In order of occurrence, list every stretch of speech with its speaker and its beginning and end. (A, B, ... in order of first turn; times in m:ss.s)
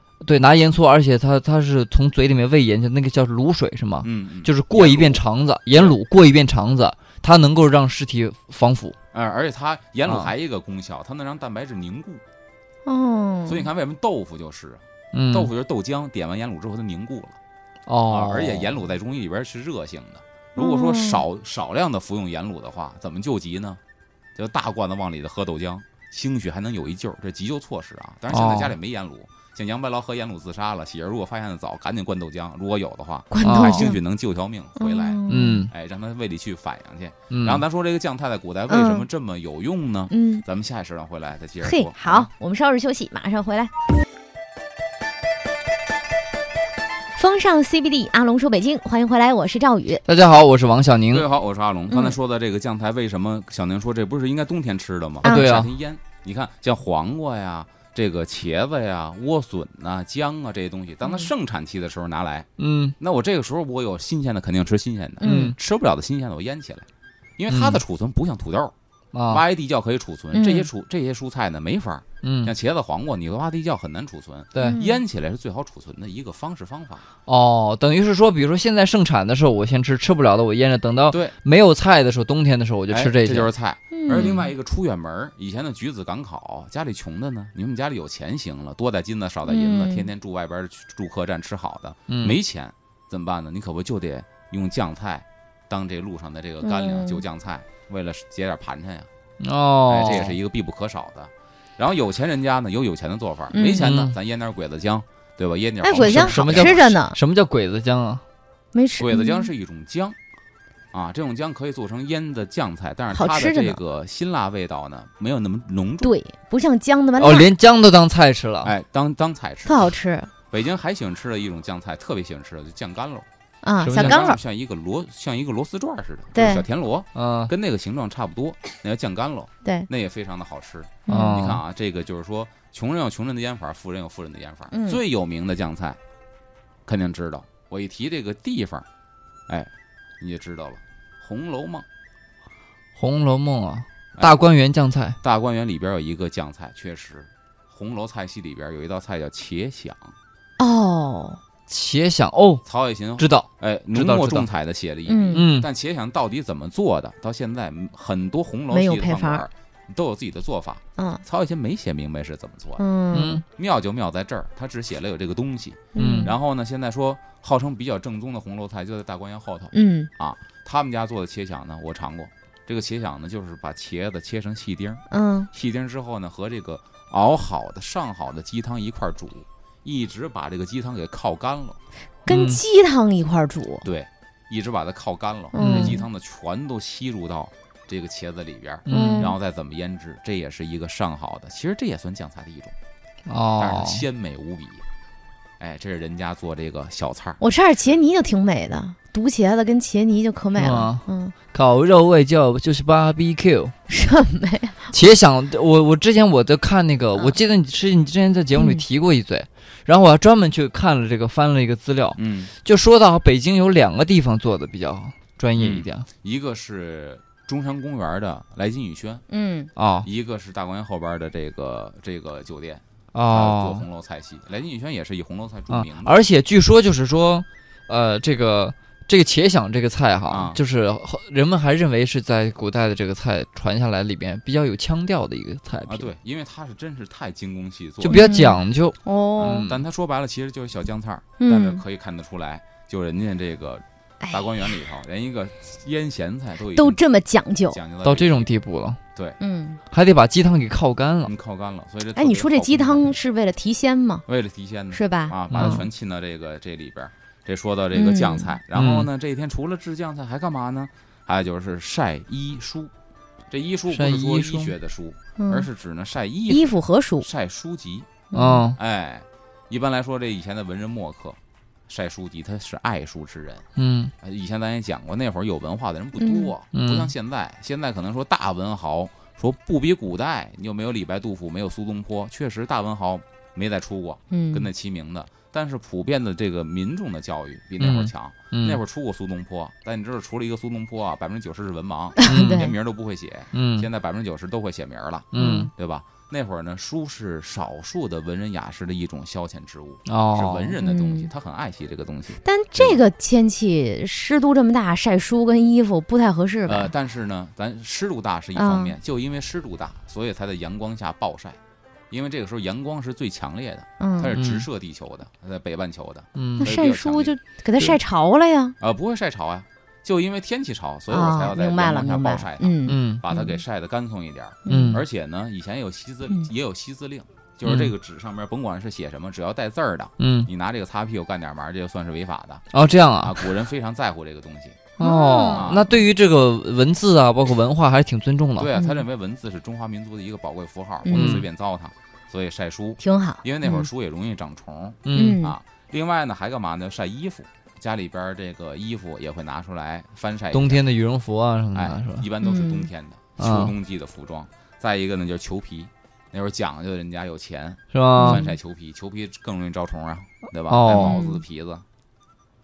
0:00.2-0:09.0 A
0:04.0-0:06.0 B
0:09.1-0:12.2 B
0:10.0-0:10.3 A
0:12.9-0:13.7 C
0:13.5-0:17.4 B
0:15.1-0:15.5 A
0:17.9-0:18.8 A
0:18.1-0:23.8 B
0:20.6-0:21.2 C
0:24.4-0:42.3 B
0:28.3-0:28.7 A
0:33.3-0:34.0 C
0:33.4-0:33.9 A
0:34.8-0:35.6 C
0:35.3-0:35.7 A
0:37.3-0:37.6 A
0:38.7-0:39.1 C
0:40.1-0:40.4 C
0:41.6-0:43.7 C
0:47.2-0:50.0 C
0:50.1-0:51.3 A
0:51.1-1:02.5 B
0:51.9-0:52.2 C
0:55.2-0:55.5 C
0:55.2-0:55.7 A
1:02.6-1:03.0 A
1:03.0-1:06.9 B
1:05.2-1:05.5 C
1:05.2-1:05.6 A
1:07.4-1:08.7 B
1:07.5-1:07.8 A
1:09.1-1:09.4 A
1:09.3-1:17.0 B
1:10.3-1:10.7 C
1:12.2-1:12.5 A
1:14.6-1:15.0 C
1:17.3-1:23.5 A
1:22.9-1:39.1 B
1:23.9-1:24.4 C
1:29.5-1:30.1 C
1:32.1-1:32.4 A
1:36.6-1:37.2 C
1:39.4-1:40.4 A
1:39.9-1:46.9 B
1:43.5-1:43.8 C
1:43.8-1:44.2 A
1:45.8-1:47.2 C
1:46.0-1:48.2 A
1:48.7-1:49.5 C
1:49.0-1:50.2 B
1:50.9-1:56.1 B
1:53.1-1:53.8 C
1:56.0-1:57.5 C
1:57.2-1:58.7 A
1:58.6-1:59.9 B
1:59.6-2:00.3 C
2:00.5-2:03.3 B
2:03.6-2:04.4 C
2:03.8-2:04.3 A
2:03.9-2:16.0 B
2:06.3-2:06.6 C
2:07.2-2:07.5 A
2:11.1-2:11.4 C
2:11.1-2:11.6 A
2:14.7-2:15.0 C
2:16.9-2:18.9 B
2:19.5-2:21.9 B
2:23.0-2:25.2 A
2:25.2-2:30.1 B
2:30.6-2:31.4 C
2:31.7-2:32.6 A
2:32.6-2:42.8 B
2:33.2-2:34.5 A
2:35.1-2:35.5 C
2:35.4-2:35.7 A
2:38.7-2:39.4 C
2:41.0-2:41.2 C
2:42.8-2:43.4 C
2:43.1-2:43.4 A
2:43.5-3:01.8 B
2:46.0-2:46.3 C
2:46.0-2:46.3 A
2:49.7-2:50.1 C
2:55.1-2:55.5 C
3:02.3-3:03.9 C
3:02.3-3:02.6 A
3:03.8-3:12.8 B
3:05.5-3:06.0 C
3:05.6-3:06.0 A
3:08.9-3:09.3 A
3:08.9-3:09.3 C
3:13.3-3:14.0 A
3:13.6-3:14.8 B
3:15.6-3:17.4 B
3:17.4-3:21.3 C
3:20.6-3:23.7 A
3:23.9-3:24.8 C
3:24.9-3:36.0 A
3:28.6-3:28.8 C
3:32.2-3:32.5 B
3:35.6-3:39.2 B
3:39.3-3:39.7 C
3:39.8-3:40.1 A
3:40.0-3:46.2 B
3:43.1-3:43.8 A
3:45.7-3:56.1 A
3:50.3-3:50.6 B
3:55.9-3:58.4 B
3:58.0-3:59.8 A
3:58.1-3:59.7 C
3:59.4-4:07.0 B
4:01.4-4:01.8 C
4:06.8-4:07.8 C
4:07.7-4:08.5 B
4:08.0-4:09.0 A
4:09.4-4:09.8 C
4:09.9-4:11.3 A
4:11.2-4:13.2 B
4:12.2-4:14.2 C
4:14.3-4:22.9 B
4:14.9-4:15.8 C
4:15.5-4:15.8 A
4:17.9-4:18.5 C
4:18.8-4:19.1 A
4:23.5-4:26.7 B
4:23.9-4:24.7 A
4:25.4-4:25.7 C
4:26.5-4:27.3 C
4:27.2-4:28.1 B
4:28.3-4:28.7 C
4:28.3-4:28.8 A
4:28.8-4:33.6 B
4:33.8-4:34.1 A
4:34.2-5:03.0 B
4:36.2-4:36.5 C
4:36.7-4:37.1 A
4:44.3-4:44.7 C
4:47.8-4:48.8 A
4:52.2-4:52.7 C
4:52.3-4:52.7 A
4:53.5-4:53.9 A
4:55.3-4:55.7 A
4:55.4-4:55.7 C
5:00.1-5:00.8 A
5:00.8-5:01.3 C
5:02.4-5:06.9 C
5:06.7-5:11.6 B
5:08.6-5:09.0 C
5:12.1-5:17.4 B
5:14.0-5:14.4 C
5:14.4-5:14.7 A
5:16.4-5:16.7 A
5:16.6-5:18.8 C
5:18.8-5:32.6 B
5:21.1-5:23.6 C
5:22.9-5:23.2 A
5:24.7-5:25.0 C
5:24.7-5:25.0 A
5:27.6-5:27.9 A
5:30.2-5:30.5 A
5:32.7-5:33.4 A
5:33.2-5:34.9 B
5:35.0-5:35.7 C
5:35.0-5:38.7 A
5:35.5-5:35.9 B
5:38.6-5:50.8 B
5:38.8-5:39.0 C
5:41.0-5:41.4 C
5:41.1-5:41.4 A
5:43.0-5:43.9 C
5:45.0-5:45.4 A
5:45.1-5:45.6 C
5:50.5-5:52.3 A
5:51.7-6:01.8 B
5:52.4-5:52.9 C
5:53.4-5:53.7 A
5:57.9-5:58.4 A
5:58.2-5:58.5 C
6:00.7-6:01.2 A
6:00.9-6:01.4 C